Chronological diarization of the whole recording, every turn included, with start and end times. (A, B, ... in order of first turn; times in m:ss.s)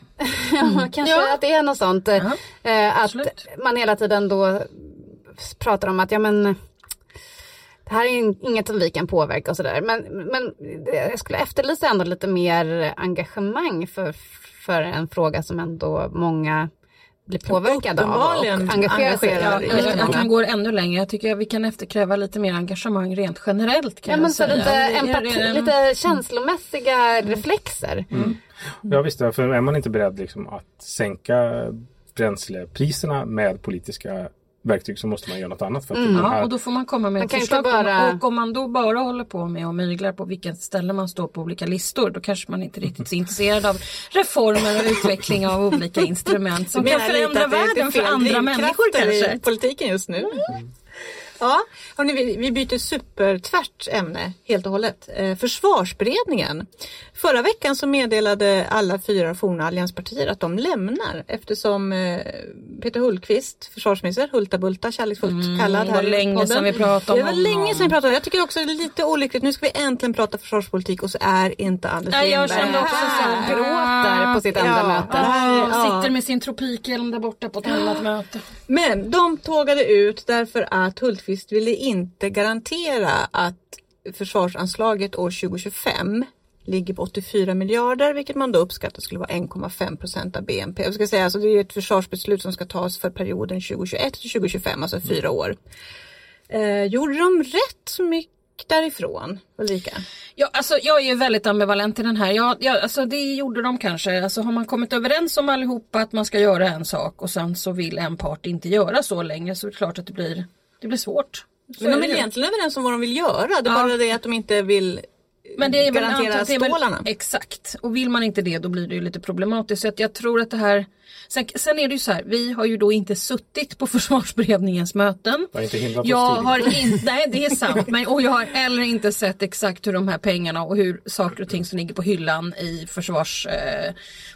0:00.2-0:06.6 A
0:00.6-0:00.9 B
0:03.0-0:03.4 B
0:07.8-0:16.7 A
0:17.3-0:20.2 A
0:17.5-0:20.3 C
0:19.4-0:25.7 B
0:24.1-0:28.2 A
0:28.1-0:36.5 D
0:35.9-0:36.4 A
0:36.1-0:49.4 B
0:37.2-0:38.2 A
0:46.7-0:50.5 C
0:51.4-1:13.6 C
1:05.2-1:07.9 B
1:12.1-1:14.4 B
1:12.4-1:15.3 A
1:14.5-1:16.1 C
1:15.1-1:18.4 B
1:17.7-1:17.9 C
1:18.7-1:35.6 C
1:36.5-1:40.0 C
1:40.4-1:52.3 B
1:51.8-1:55.0 C
1:53.6-1:53.9 B
1:55.6-2:13.9 B
1:55.6-1:57.1 C
2:05.5-2:07.0 D